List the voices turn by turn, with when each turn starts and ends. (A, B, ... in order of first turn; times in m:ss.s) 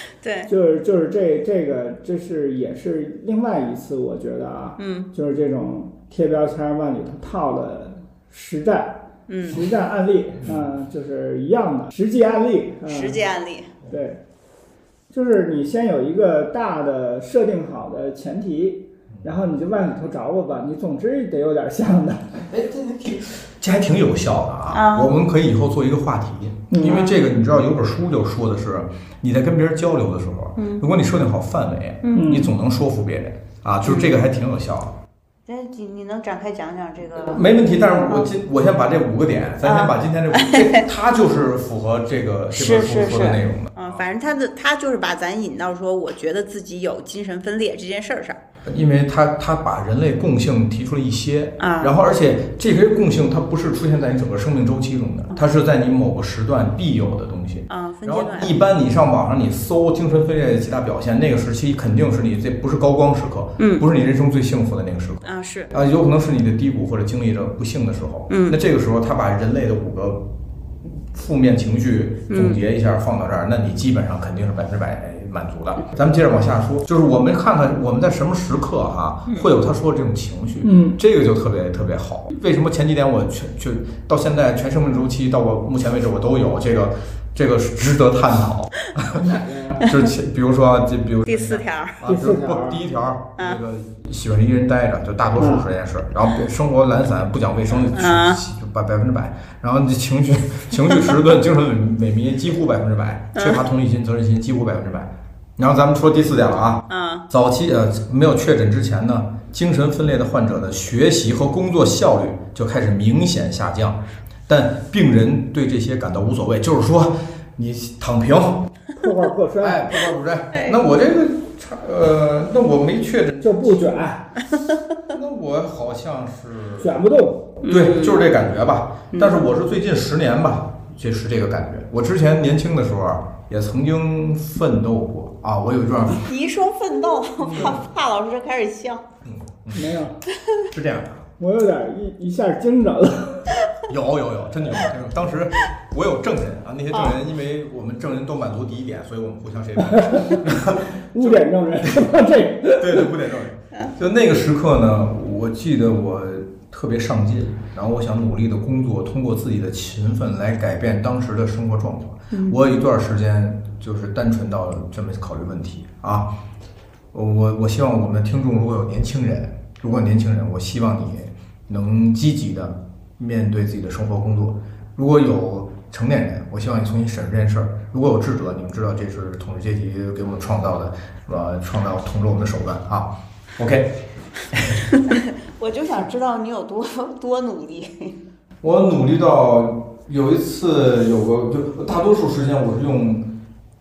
0:00.2-0:00.5 A
0:00.5-0:13.2 B
0:04.8-0:05.1 A
0:09.3-0:09.6 A
0:12.9-0:13.7 A
0:13.9-0:14.2 B
0:15.1-0:22.5 B
0:22.5-0:35.0 C
0:24.7-0:25.1 A
0:26.7-0:27.1 B
0:26.9-0:27.1 A
0:30.6-0:30.8 A
0:32.0-0:32.3 A
0:32.1-0:32.6 B
0:33.8-0:34.2 A
0:35.5-0:37.5 A
0:37.2-0:44.1 C
0:39.6-0:40.8 A
0:42.5-0:48.4 A
0:48.6-1:10.2 C
0:51.6-0:52.0 A
0:57.7-0:58.6 A
1:03.6-1:03.9 A
1:05.2-1:05.8 A
1:08.3-1:08.6 A
1:11.0-1:29.2 C
1:12.3-1:12.6 A
1:20.6-1:21.0 B
1:29.1-1:30.0 B
1:29.8-1:58.7 C
1:31.2-1:32.0 A
1:32.0-1:32.8 B
1:35.4-1:35.7 B
1:37.9-1:38.4 A
1:43.4-1:43.6 A
1:46.9-1:47.3 A
1:59.0-2:00.0 B
1:59.6-2:04.0 C
2:00.5-2:00.8 A
2:03.4-2:04.4 B
2:05.1-2:07.0 C
2:06.8-2:07.6 B
2:07.6-2:08.3 A
2:07.6-2:16.3 C
2:09.1-2:09.4 A
2:16.2-2:19.1 A
2:17.4-2:17.8 C
2:19.2-2:20.0 C
2:19.7-2:20.2 B
2:20.7-2:21.3 C
2:21.4-2:23.6 B
2:23.9-2:32.1 C
2:26.9-2:27.2 A
2:29.8-2:33.2 B
2:32.8-2:46.3 C
2:42.3-2:42.6 A
2:47.1-3:04.9 C
3:05.0-3:08.2 A
3:08.6-3:13.3 C